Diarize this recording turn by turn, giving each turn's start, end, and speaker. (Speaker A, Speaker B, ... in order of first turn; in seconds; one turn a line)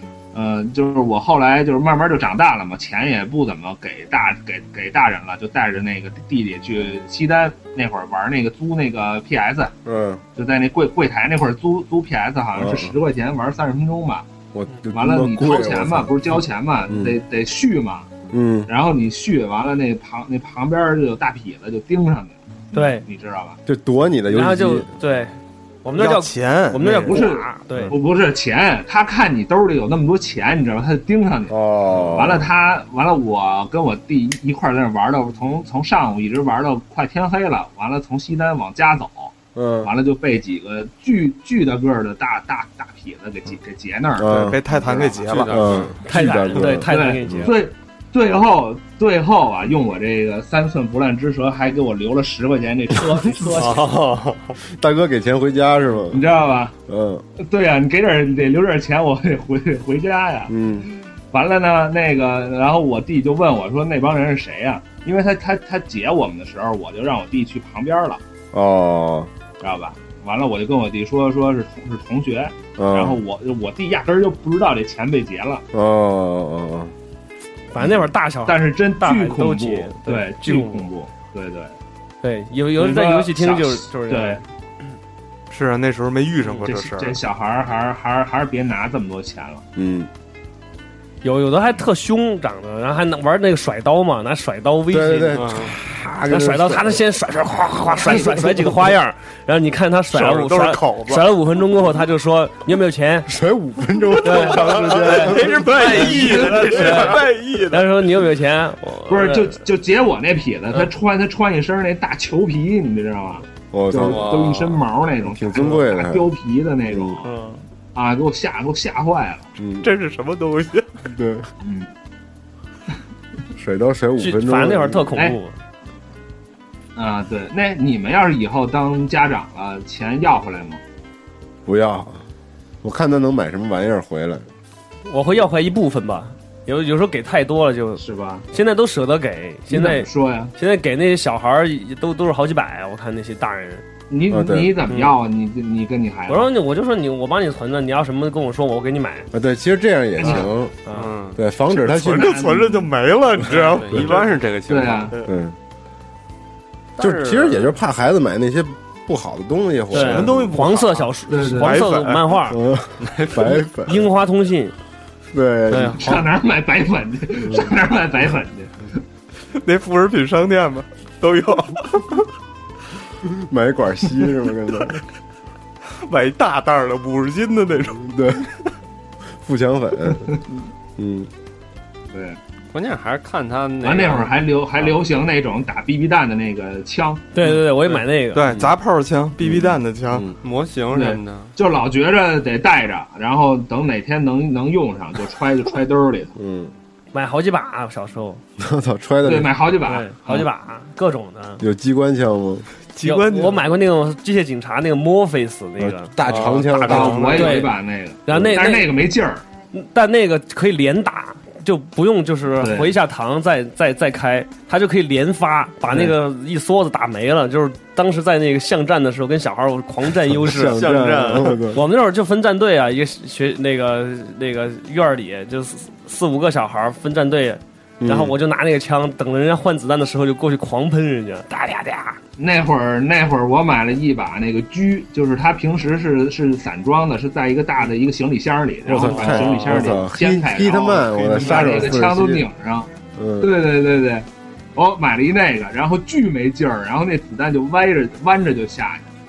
Speaker A: 0.3-9.7
Speaker B: 9.8-10.2
Speaker A: 10.3-14.2
Speaker B: 12.6-12.9
Speaker B: 14.5-17.2
Speaker A: 14.9-18.1
Speaker B: 18.3-18.7
Speaker A: 18.7-23.6
Speaker C: 22.7-23.1
Speaker B: 23.6-24.9
Speaker C: 24.3-28.0
Speaker D: 25.9-27.1
Speaker A: 26.8-45.2
Speaker B: 31.5-32.5
Speaker B: 39.5-39.9
Speaker B: 44.2-44.6
Speaker D: 44.2-45.6
Speaker E: 45.3-46.0
Speaker B: 45.5-46.9
Speaker C: 46.0-47.6
Speaker A: 46.9-54.0
Speaker E: 53.5-54.5
Speaker B: 54.6-56.3
Speaker A: 56.1-56.7
Speaker B: 56.9-57.2
Speaker A: 57.4-60.5
Speaker B: 60.5-60.9
Speaker A: 61.3-68.2
Speaker B: 68.5-69.3
Speaker A: 69.6-75.6
Speaker B: 72.8-73.2
Speaker B: 75.7-76.9
Speaker C: 77.7-80.9
Speaker A: 78.5-81.7
Speaker C: 82.2-84.4
Speaker A: 82.8-84.4
Speaker D: 85.5-87.2
Speaker A: 86.6-89.6
Speaker B: 89.7-90.1
Speaker C: 91.2-95.5
Speaker B: 94.9-97.0
Speaker E: 95.3-95.7
Speaker C: 96.3-103.3
Speaker A: 98.0-98.4
Speaker D: 100.1-101.3
Speaker B: 103.3-106.7
Speaker C: 104.2-105.4
Speaker D: 104.6-107.9
Speaker E: 105.3-107.0
Speaker A: 106.0-107.1
Speaker C: 106.7-109.6
Speaker A: 109.1-117.3
Speaker B: 113.7-114.3
Speaker E: 113.9-114.8
Speaker B: 115.2-116.3
Speaker B: 116.9-117.2
Speaker C: 117.2-117.6
Speaker A: 117.9-119.5
Speaker B: 119.6-119.9
Speaker D: 119.8-120.9
Speaker B: 121.0-121.5
Speaker A: 121.6-121.9
Speaker B: 123.5-125.3
Speaker C: 124.2-125.5
Speaker A: 127.0-130.8
Speaker B: 131.7-132.3
Speaker B: 132.8-134.4
Speaker C: 135.1-143.8
Speaker A: 138.0-138.4
Speaker A: 139.7-140.5
Speaker A: 144.1-146.5
Speaker B: 144.3-144.8
Speaker C: 144.9-145.2
Speaker C: 146.3-149.3
Speaker B: 149.3-150.8
Speaker A: 150.2-150.5
Speaker C: 150.8-151.2
Speaker E: 150.9-151.4
Speaker B: 151.3-152.4
Speaker A: 151.7-152.9
Speaker D: 151.9-154.2
Speaker E: 153.7-155.2
Speaker A: 154.7-155.2
Speaker B: 155.2-155.6
Speaker E: 157.0-157.7
Speaker B: 157.0-160.5
Speaker C: 159.9-162.6
Speaker D: 159.9-162.3
Speaker A: 161.3-161.8
Speaker B: 162.5-164.1
Speaker E: 163.0-163.6
Speaker C: 163.8-164.7
Speaker B: 165.3-166.2
Speaker C: 165.7-166.2
Speaker A: 165.9-168.7
Speaker D: 169.5-172.0
Speaker B: 173.2-175.0
Speaker D: 176.0-178.0
Speaker B: 177.9-178.4
Speaker B: 179.4-180.3
Speaker B: 181.0-181.3
Speaker A: 182.1-182.4
Speaker E: 182.7-184.4
Speaker A: 183.8-187.3
Speaker C: 187.3-188.5
Speaker D: 188.3-190.2
Speaker B: 189.4-190.4
Speaker E: 190.4-191.5
Speaker A: 190.9-196.3
Speaker B: 196.3-196.7
Speaker C: 197.1-198.4
Speaker B: 198.6-199.6
Speaker A: 199.2-200.5
Speaker C: 199.8-201.6
Speaker B: 201.6-202.7
Speaker D: 202.9-203.7
Speaker C: 203.0-206.1
Speaker B: 205.8-207.4
Speaker E: 206.2-207.7
Speaker C: 206.8-208.9
Speaker A: 206.8-209.4
Speaker C: 209.7-220.8
Speaker A: 212.6-212.9
Speaker B: 220.3-221.8
Speaker E: 220.5-221.7
Speaker C: 221.7-232.2
Speaker B: 228.0-228.4
Speaker A: 232.4-249.1
Speaker B: 238.8-242.5
Speaker C: 239.1-240.0
Speaker B: 243.2-243.5